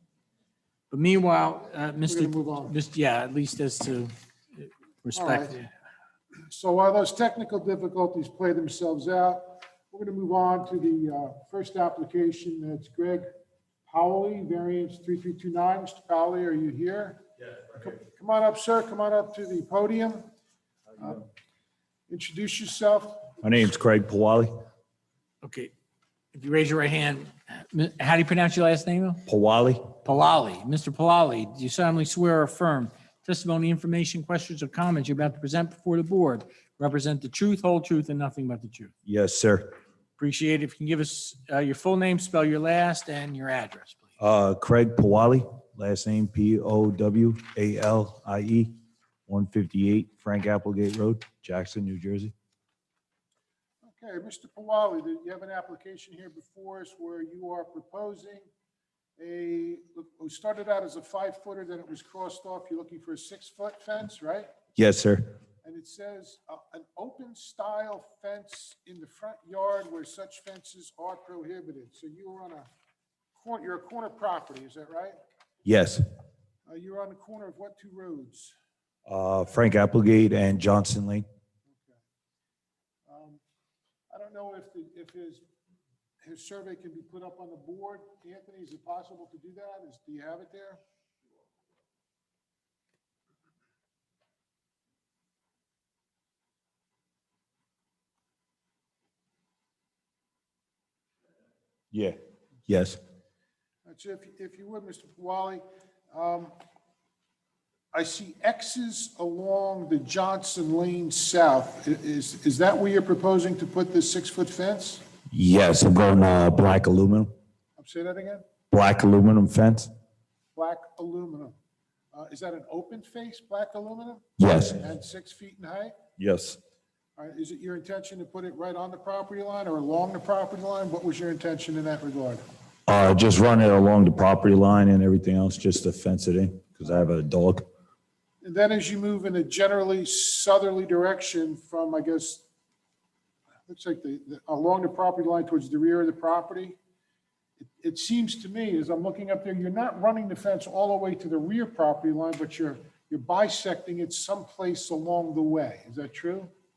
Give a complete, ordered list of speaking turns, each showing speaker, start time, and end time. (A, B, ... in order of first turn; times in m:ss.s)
0:00.9-0:05.7 A
0:02.1-0:02.7 B
0:05.1-0:05.6 B
0:06.5-0:13.3 B
0:13.9-0:20.2 B
0:21.0-0:21.3 B
0:22.1-0:23.6 B
0:23.4-0:24.5 C
0:25.4-0:25.7 A
0:26.3-0:29.2 A
0:29.3-0:29.9 C
0:30.0-0:38.9 A
0:39.0-0:39.7 C
0:40.2-0:44.1 A
0:44.2-0:48.7 C
0:49.3-0:52.3 C
0:53.8-0:58.5 B
0:59.2-1:04.5 B
1:04.8-1:05.3 C
1:05.6-1:12.7 B
1:13.3-1:15.2 B
1:15.6-1:16.0 C
1:16.7-1:18.6 B
1:19.1-1:21.2 C
1:21.7-1:22.0 B
1:23.0-1:23.4 B
1:24.1-1:25.4 B
1:26.2-1:30.8 B
1:42.7-1:43.0 C
1:43.8-1:46.5 B
1:47.9-1:55.0 B
1:55.3-1:57.3 C
1:57.8-1:58.4 B
1:58.7-1:59.9 C
2:00.5-2:01.6 B
2:02.1-2:05.9 B
2:04.4-2:04.8 C
2:06.2-2:06.6 C
2:07.2-2:12.4 B
2:12.9-2:17.6 C
2:18.4-2:22.4 B
2:23.7-2:26.8 B
2:27.6-2:36.5 B